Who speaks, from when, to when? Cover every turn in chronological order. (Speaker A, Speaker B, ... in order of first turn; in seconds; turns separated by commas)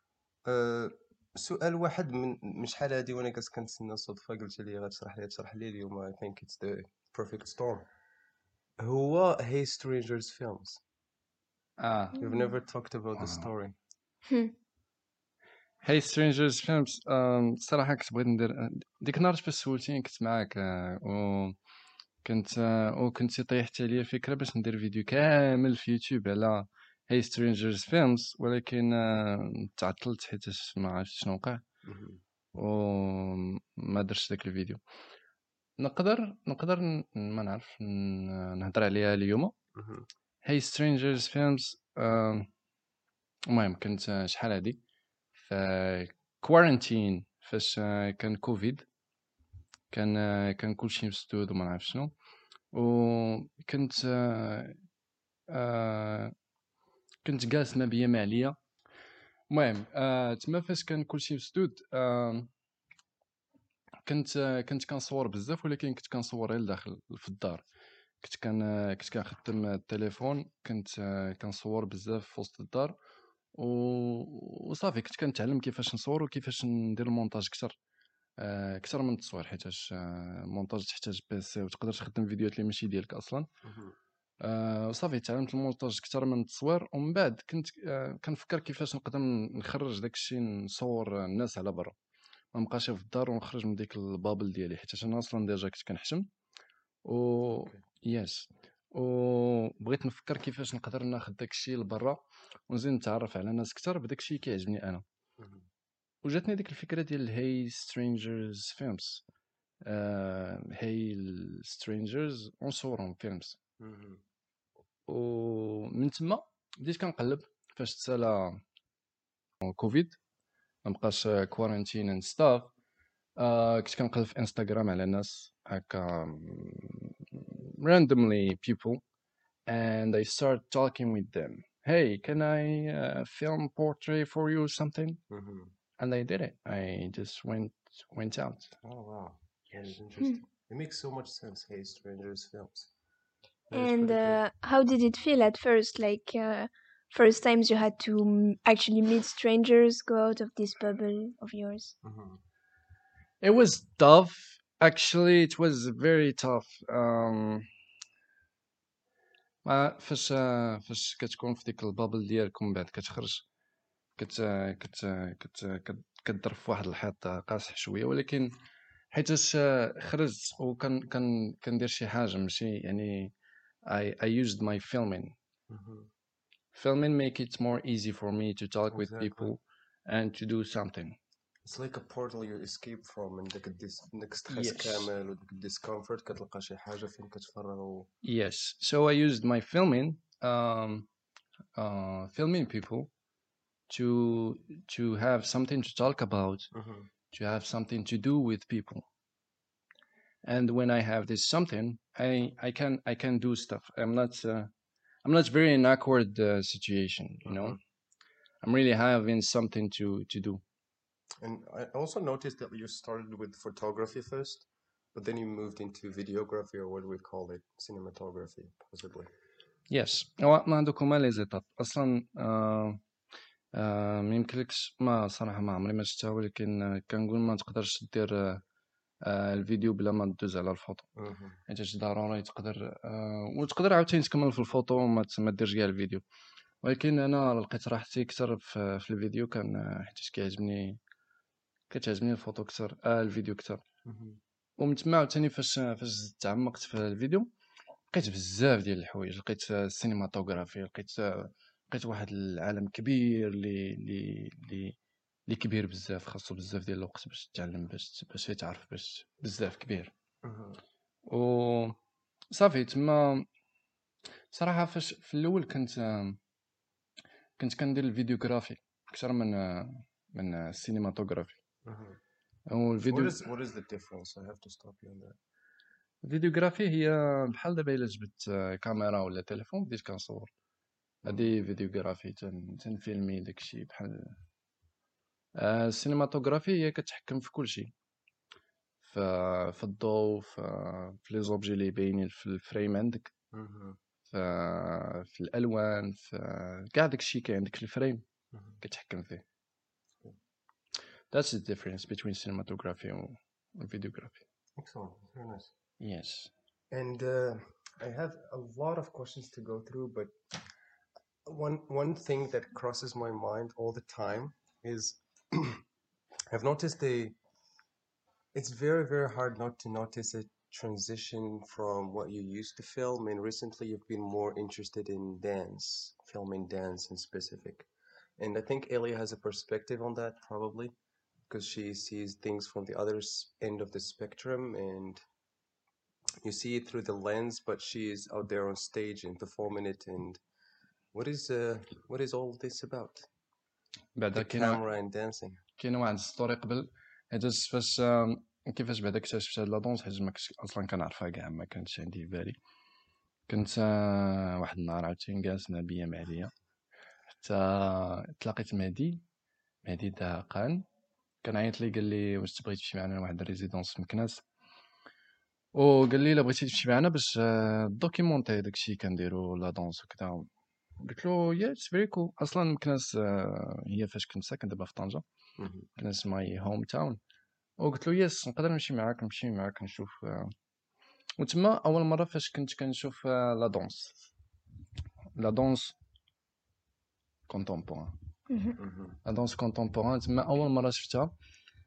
Speaker A: 0.5-7.9, Speaker A: 8.8-10.8, Speaker B: 11.8-12.2, Speaker A: 12.2-13.8, Speaker B: 13.2-13.5, Speaker B: 15.8-21.6, Speaker B: 22.2-31.6, Speaker A: 31.8-32.2, Speaker B: 32.5-34.8, Speaker B: 35.8-39.5, Speaker A: 39.8-40.1, Speaker B: 40.4-42.5, Speaker B: 43.5-44.8, Speaker B: 45.4-48.9, Speaker B: 49.9-52.1, Speaker B: 52.7-54.8, Speaker B: 55.5-56.3, Speaker B: 57.2-58.6, Speaker B: 59.5-62.5, Speaker B: 64.0-67.7, Speaker B: 68.2-73.0, Speaker B: 73.5-77.8, Speaker B: 78.4-83.5, Speaker A: 83.7-84.0, Speaker B: 84.4-92.0, Speaker B: 92.5-96.3, Speaker B: 97.0-105.0, Speaker B: 106.2-109.2, Speaker B: 109.8-113.6, Speaker A: 113.8-114.2, Speaker B: 115.1-118.6, Speaker B: 119.6-120.2, Speaker B: 120.8-122.7, Speaker B: 123.4-129.0, Speaker B: 129.7-135.2, Speaker A: 135.3-135.7, Speaker B: 136.0-138.7, Speaker A: 138.8-142.9, Speaker A: 143.7-144.4, Speaker C: 143.7-151.9, Speaker A: 152.0-152.4, Speaker B: 153.4-157.7, Speaker B: 159.7-163.4, Speaker B: 164.2-168.6, Speaker B: 169.1-173.3, Speaker B: 173.8-175.4, Speaker A: 175.7-176.1, Speaker B: 176.7-181.2, Speaker A: 178.9-179.5, Speaker A: 181.7-188.1, Speaker B: 184.5-185.1, Speaker B: 188.2-191.1, Speaker B: 191.8-193.1, Speaker B: 193.9-196.7, Speaker A: 196.7-197.1, Speaker B: 197.3-199.1, Speaker B: 200.4-204.7, Speaker B: 205.2-207.8, Speaker A: 207.5-207.8, Speaker B: 208.6-210.6, Speaker A: 211.4-219.3, Speaker B: 219.9-223.0, Speaker B: 223.7-228.6, Speaker B: 229.2-231.1, Speaker A: 231.2-231.6, Speaker B: 231.7-236.2, Speaker B: 236.8-241.0, Speaker B: 241.9-243.8, Speaker A: 244.1-244.4, Speaker B: 244.8-247.5, Speaker B: 248.1-255.0, Speaker B: 255.5-260.1, Speaker A: 260.4-260.8, Speaker B: 261.3-262.0, Speaker B: 262.5-263.5, Speaker B: 264.5-266.4, Speaker B: 267.6-271.6, Speaker A: 271.8-272.2, Speaker B: 272.7-273.4, Speaker A: 273.1-275.4, Speaker B: 276.2-280.5, Speaker B: 281.2-284.4, Speaker B: 285.5-287.9, Speaker B: 289.0-293.3, Speaker A: 293.5-294.0, Speaker B: 294.3-298.2, Speaker B: 298.8-299.4, Speaker B: 301.3-304.4, Speaker A: 304.8-305.7, Speaker B: 306.0-306.5, Speaker A: 306.9-310.3, Speaker A: 311.5-315.8, Speaker A: 316.5-317.4, Speaker A: 318.5-327.9, Speaker A: 328.4-330.9, Speaker A: 331.5-335.2, Speaker A: 336.4-340.4, Speaker A: 341.1-343.3, Speaker B: 344.2-344.8, Speaker A: 344.3-345.6, Speaker B: 345.8-352.6, Speaker B: 353.5-356.5, Speaker B: 357.3-359.2, Speaker B: 359.8-360.9, Speaker B: 361.4-364.4, Speaker B: 365.7-375.2, Speaker A: 375.6-375.9, Speaker B: 376.0-377.2, Speaker B: 377.8-380.5, Speaker B: 381.4-384.3, Speaker B: 385.4-386.0, Speaker B: 387.5-388.1, Speaker C: 388.5-388.8, Speaker A: 388.8-389.2, Speaker B: 389.2-391.3